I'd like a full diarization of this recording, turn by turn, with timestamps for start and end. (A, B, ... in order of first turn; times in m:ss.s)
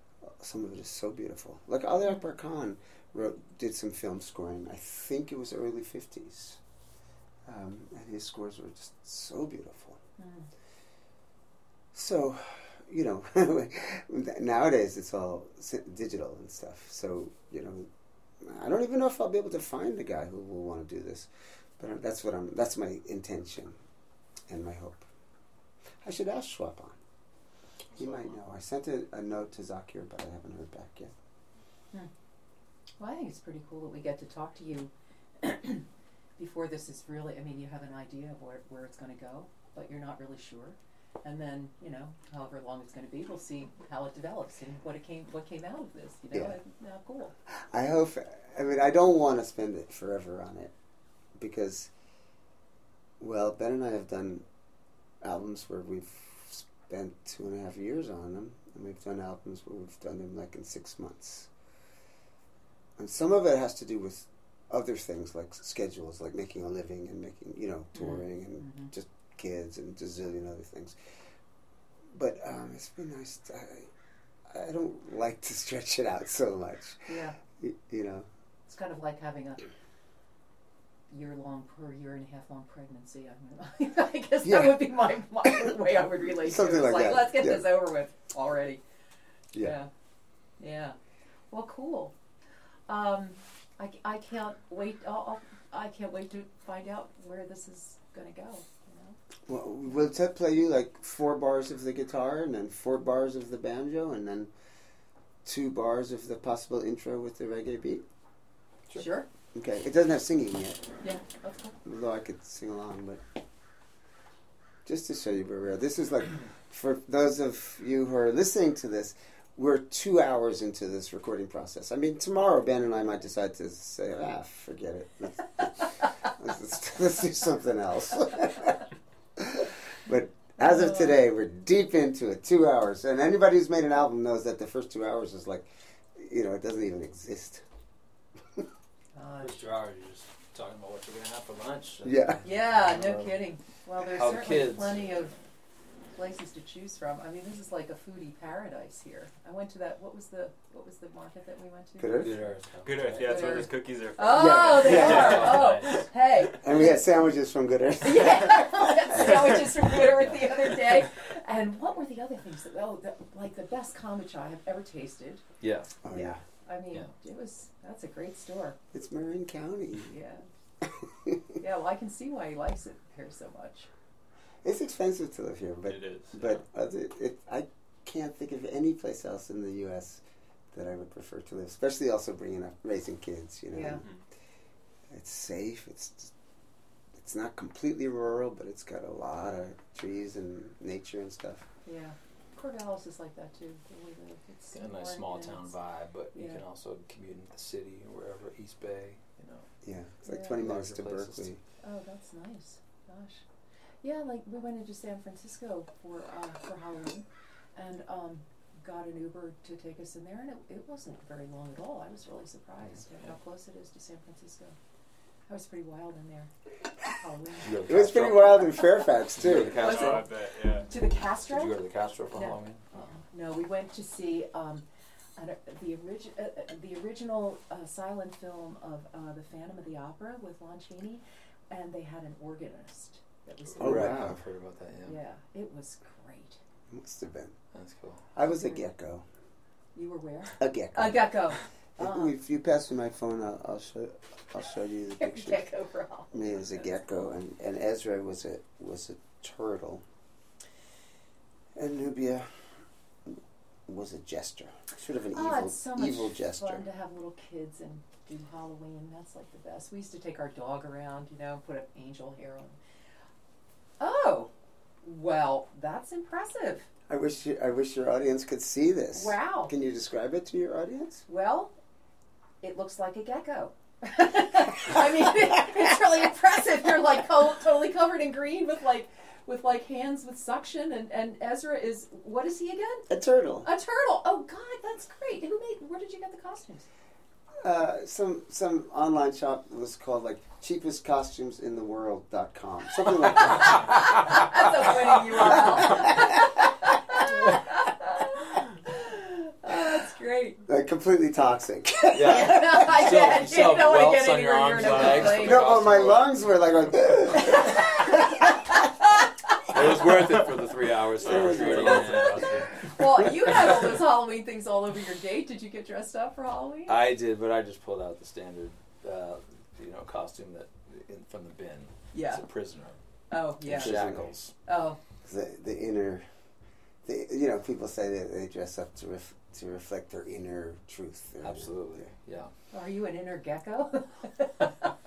0:00.2-0:06.6 A
0:07.5-0:10.0 A
0:10.2-0:10.5 B
0:11.9-0:17.9 A
0:18.4-0:23.8 A
0:24.5-0:25.1 A
0:26.0-0:27.0 A
0:28.0-0:31.1 A
0:33.0-0:35.8 B
0:36.4-0:47.3 B
0:46.3-0:46.6 A
0:47.5-0:50.7 A
0:51.4-0:51.9 A
0:53.2-0:54.4 A
0:55.2-1:01.5 A
1:03.0-1:11.0 A
1:08.0-1:08.9 B
1:12.1-1:13.9 A
1:14.5-1:18.3 A
1:17.1-1:17.4 B
1:18.7-1:19.7 B
1:21.1-1:28.8 B
1:24.4-1:25.8 A
1:26.3-1:27.7 A
1:29.6-1:29.9 B
1:30.6-1:31.0 B
1:31.5-1:32.1 B
1:32.9-1:39.2 B
1:39.5-1:44.5 A
1:45.4-1:48.0 A
1:48.9-1:49.3 B
1:49.5-1:50.9 A
1:51.0-1:51.7 B
1:51.8-1:53.2 A
1:54.9-2:17.6 A
2:10.6-2:11.1 B
2:19.1-2:19.6 B
2:19.4-2:23.3 C
2:22.0-2:22.4 A
2:22.4-2:25.4 B
2:24.0-2:25.1 C
2:26.1-2:32.3 B
2:32.0-2:32.4 A
2:32.2-2:33.6 C
2:32.8-2:36.1 D
2:33.2-2:36.9 B
2:34.3-2:35.7 A
2:36.5-2:39.3 A
2:38.0-2:45.4 B
2:39.2-2:39.5 C
2:45.6-2:45.9 C
2:46.0-2:46.4 A
2:46.1-2:48.8 B
2:48.9-2:50.1 A
2:50.1-2:50.5 B
2:50.8-2:51.4 A
2:51.6-2:53.9 B
2:54.6-3:04.1 A
2:55.9-2:56.5 D
3:03.7-3:04.0 B
3:05.1-3:06.3 A
3:07.1-3:11.7 A
3:11.8-3:15.7 B
3:14.7-3:19.7 C
3:16.3-3:16.6 B
3:19.8-3:21.6 A
3:20.2-3:20.6 B
3:20.5-3:21.5 C
3:21.8-3:23.4 B
3:24.0-3:34.8 B
3:32.9-3:33.3 C
3:35.5-3:36.5 B
3:37.1-3:37.7 B
3:37.6-3:38.8 C
3:37.8-3:40.2 A
3:39.4-3:40.3 C
3:39.6-3:40.9 D
3:39.8-3:40.2 B
3:40.9-3:41.8 B
3:41.4-3:42.8 C
3:42.3-3:44.8 B
3:45.4-3:54.3 B
3:53.7-3:55.2 C
3:53.8-3:54.4 A
3:55.0-3:56.6 B
3:56.9-3:57.6 A
3:57.7-3:58.2 C
3:58.4-3:59.3 A
3:58.4-3:58.8 B
4:00.0-4:02.3 B
4:00.6-4:05.6 A
4:05.2-4:06.4 B
4:06.3-4:10.0 A
4:11.8-4:16.8 A
4:15.3-4:22.8 B
4:24.0-4:24.5 B
4:25.0-4:26.9 B
4:27.1-4:31.2 A
4:29.1-4:29.7 B
4:31.3-4:31.7 B
4:32.6-4:43.1 B
4:43.1-4:43.7 A
4:43.6-4:46.9 B
4:47.6-4:53.8 A
4:53.3-5:00.6 B
4:55.4-4:56.2 A
5:00.7-5:03.0 A
5:02.1-5:06.4 C
5:02.2-5:05.7 B
5:05.2-5:08.8 A
5:07.4-5:08.1 B
5:09.7-5:12.9 C
5:09.8-5:12.7 D
5:11.2-5:12.4 A
5:12.9-5:17.0 B
5:16.9-5:23.0 C
5:22.1-5:22.4 B
5:23.3-5:24.0 B
5:23.6-5:24.5 C
5:23.7-5:24.3 A
5:24.7-5:25.0 B
5:25.2-5:26.3 A
5:27.0-5:32.0 A
5:31.4-5:32.5 C
5:32.7-5:34.7 B